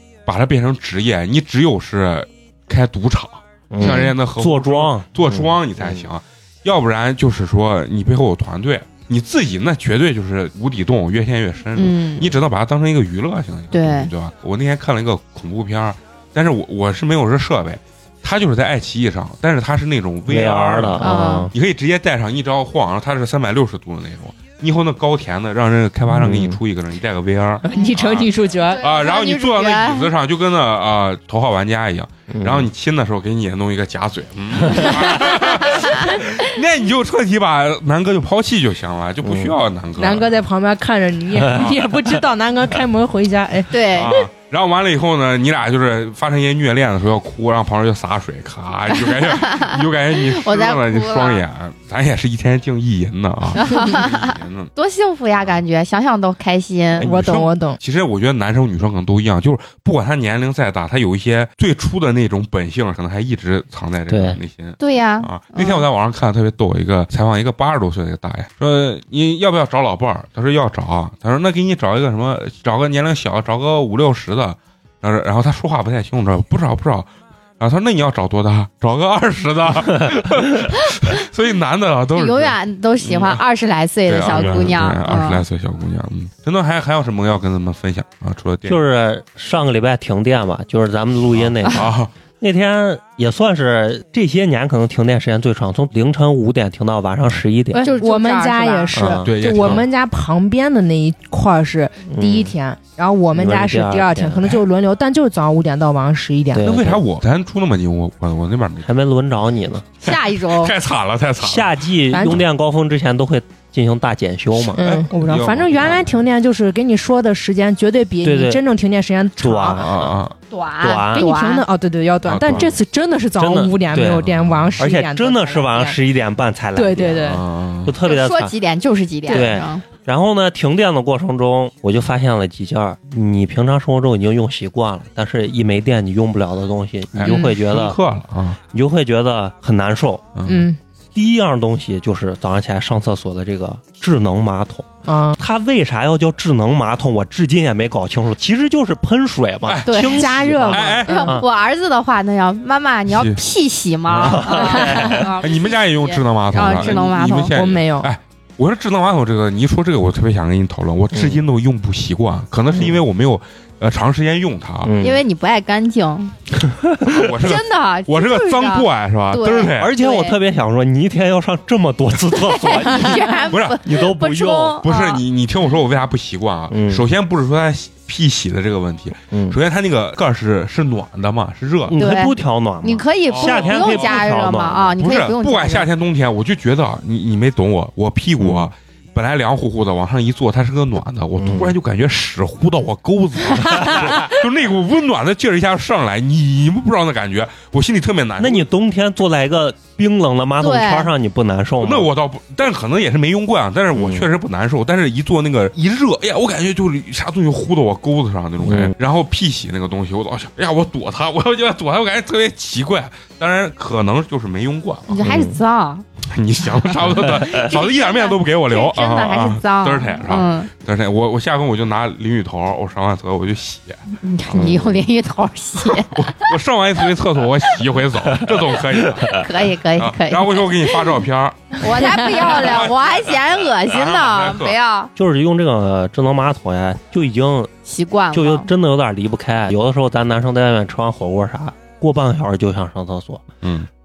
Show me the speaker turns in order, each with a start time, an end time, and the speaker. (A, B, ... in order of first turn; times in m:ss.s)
0:00.2-0:40.3 A
0:03.7-0:06.0 B
0:11.8-0:12.4 C
0:13.7-0:14.1 C
0:20.3-0:21.5 B
0:21.0-0:21.5 C
0:26.1-0:26.6 B
0:27.6-0:28.8 D
0:28.7-0:30.1 C
0:32.3-0:32.7 B
0:39.2-0:39.6 B
0:40.0-0:43.8 D
0:41.4-0:41.6 B
0:41.5-0:41.8 A
0:43.7-0:44.2 C
0:43.9-0:54.7 A
0:48.9-0:51.4 C
0:53.5-0:57.1 C
0:56.9-1:23.4 A
0:57.0-0:57.8 D
1:04.1-1:04.4 B
1:04.8-1:05.8 C
1:22.1-1:25.4 C
1:24.1-1:28.8 A
1:24.3-1:24.7 B
1:28.6-1:31.9 B
1:31.3-1:32.1 A
1:32.4-1:37.9 B
1:37.7-1:46.7 D
1:37.8-1:39.1 C
1:38.9-1:39.8 B
1:39.2-1:39.9 A
1:42.0-1:42.5 B
1:43.3-1:44.6 B
1:46.5-1:47.0 B
1:46.6-1:48.9 A
1:48.8-1:49.9 B
1:50.0-1:50.7 C
1:50.0-1:52.4 A
1:51.4-1:55.0 B
1:52.1-1:52.4 D
1:54.6-1:56.1 A
1:54.7-1:59.8 D
1:55.8-1:56.0 B
1:58.2-1:58.6 B
1:59.4-2:00.1 B
1:59.8-2:00.3 A
2:00.5-2:01.6 C
2:00.8-2:01.3 B
2:01.1-2:06.0 D
2:02.2-2:02.8 A
2:02.4-2:02.7 B
2:03.4-2:08.5 B
2:04.4-2:04.8 A
2:06.8-2:07.4 D
2:07.2-2:07.9 A
2:08.0-2:09.8 C
2:09.3-2:18.0 B
2:17.1-2:18.6 A
2:18.7-2:20.3 B
2:20.3-2:20.7 A
2:20.4-2:20.8 D
2:21.1-2:31.4 B
2:25.1-2:25.4 D
2:29.6-2:31.2 A
2:29.9-2:30.4 C
2:30.1-2:31.4 D
2:31.1-2:37.5 C
2:33.1-2:33.4 A
2:34.0-2:44.9 A
2:34.2-2:35.2 B
2:34.9-2:35.2 D
2:37.5-2:38.1 D
2:41.1-2:41.4 B
2:44.8-2:45.2 B
2:45.0-2:46.3 C
2:46.9-2:47.2 B
2:47.1-2:49.9 A
2:47.2-2:50.4 C
2:49.8-2:54.8 B
2:52.3-2:55.2 C
2:53.5-2:53.8 A
2:54.8-3:02.0 A
2:56.7-2:57.1 B
2:59.3-2:59.6 B
3:01.9-3:04.9 B
3:02.0-3:05.9 C
3:03.3-3:04.2 A
3:05.0-3:18.7 A
3:08.4-3:08.7 B
3:11.4-3:11.7 B
3:13.8-3:14.1 B
3:18.4-3:22.1 B
3:20.6-3:21.1 C
3:21.8-3:35.3 A
3:23.9-3:24.3 B
3:28.6-3:28.9 B
3:35.1-3:36.0 C
3:35.2-3:35.6 B
3:36.2-3:44.0 A
3:37.5-3:40.7 C
3:44.2-3:46.5 C
3:44.5-3:45.0 B
3:45.8-3:54.8 A
3:49.2-3:51.0 C
3:51.8-3:55.1 C
3:55.2-3:57.7 B
3:57.8-3:58.7 C
3:58.3-4:03.4 B
4:03.6-4:03.9 A